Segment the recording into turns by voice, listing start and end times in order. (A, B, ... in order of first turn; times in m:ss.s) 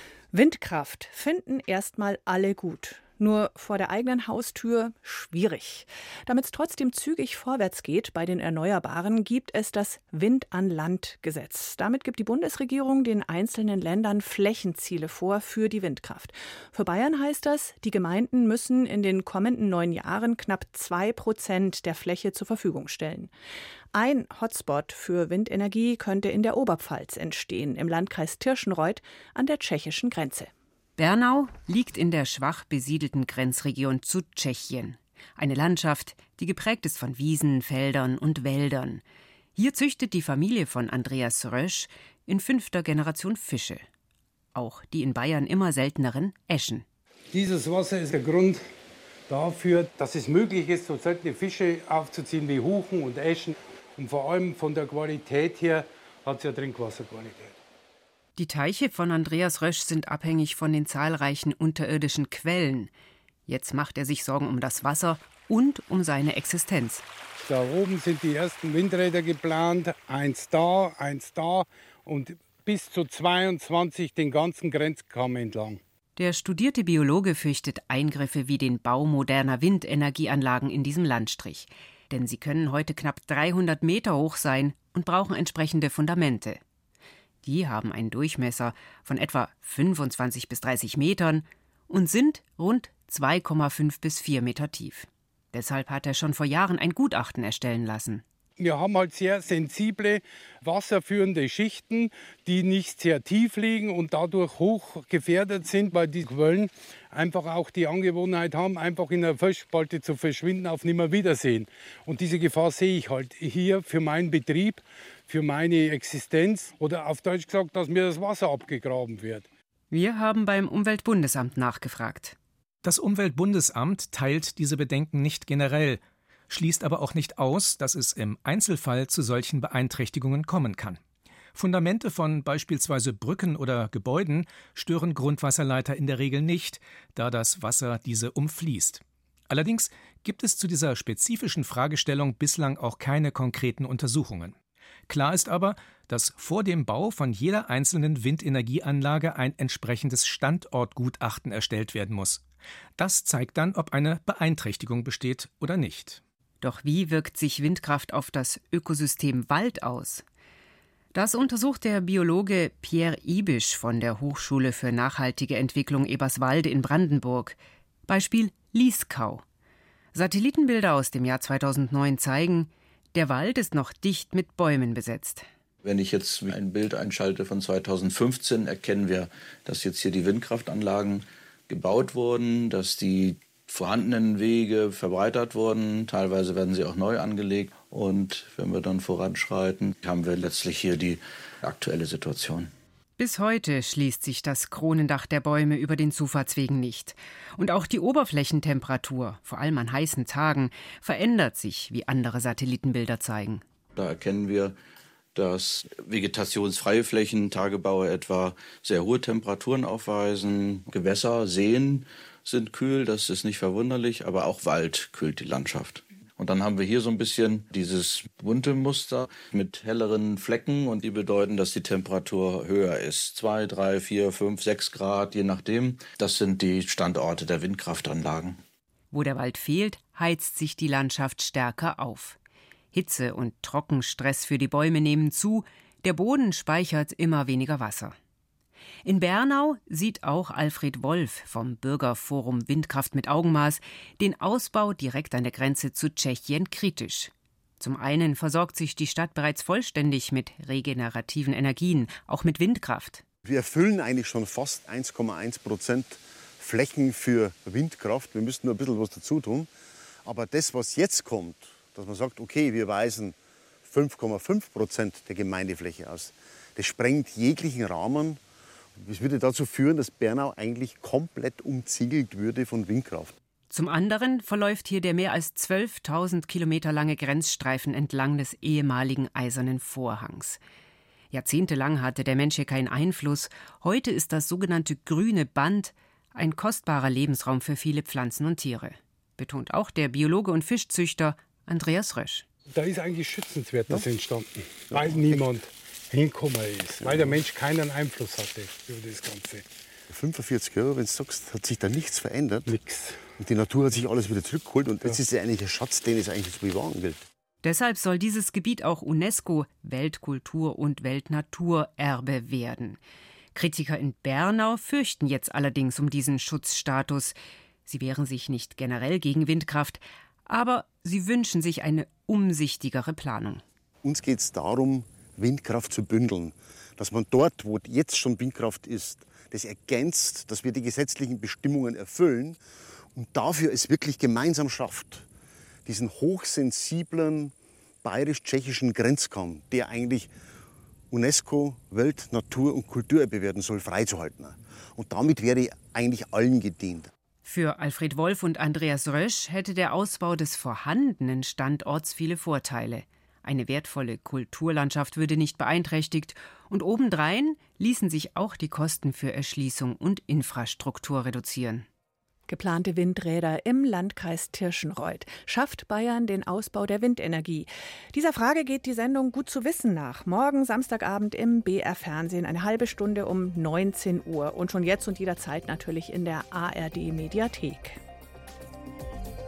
0:00.3-0:23.3 A
0:23.9-0:30.5 A
0:31.0-0:39.0 B
0:39.6-0:43.8 B
0:44.5-0:46.8 B
0:47.3-0:48.6 C
0:49.3-0:57.5 C
0:58.4-1:02.9 B
1:03.5-1:07.0 B
1:07.4-1:15.8 C
1:16.2-1:26.6 B
1:27.4-1:38.2 B
1:38.6-1:59.5 C
1:59.9-2:02.4 B
2:02.8-2:11.0 D
2:11.5-2:24.5 D
2:25.1-2:32.4 D
2:33.0-2:36.2 D
2:36.6-2:40.2 B
2:41.1-2:47.6 B
2:48.1-2:49.4 B
2:50.1-2:55.4 B
2:55.8-3:12.7 E
3:13.2-3:23.6 B
3:24.0-3:24.8 E
3:25.3-3:48.6 E
3:49.1-3:52.4 B
3:52.9-3:58.1 B
3:59.0-4:13.2 B
4:13.4-4:19.7 F
4:20.2-4:28.4 F
4:29.0-4:33.3 F
4:33.7-4:40.6 B
4:41.3-4:52.4 B
4:52.7-4:59.7 C
4:54.9-4:55.4 F
4:57.0-4:57.4 F
5:00.1-5:02.7 F
5:02.7-5:03.2 C
5:03.4-5:07.2 F
5:07.6-5:13.0 B
5:13.5-5:23.6 B
5:24.0-5:32.6 F
5:33.1-5:35.3 F
5:35.8-5:40.3 F
5:41.1-5:47.1 F
5:47.4-6:01.8 B
6:02.5-6:18.0 A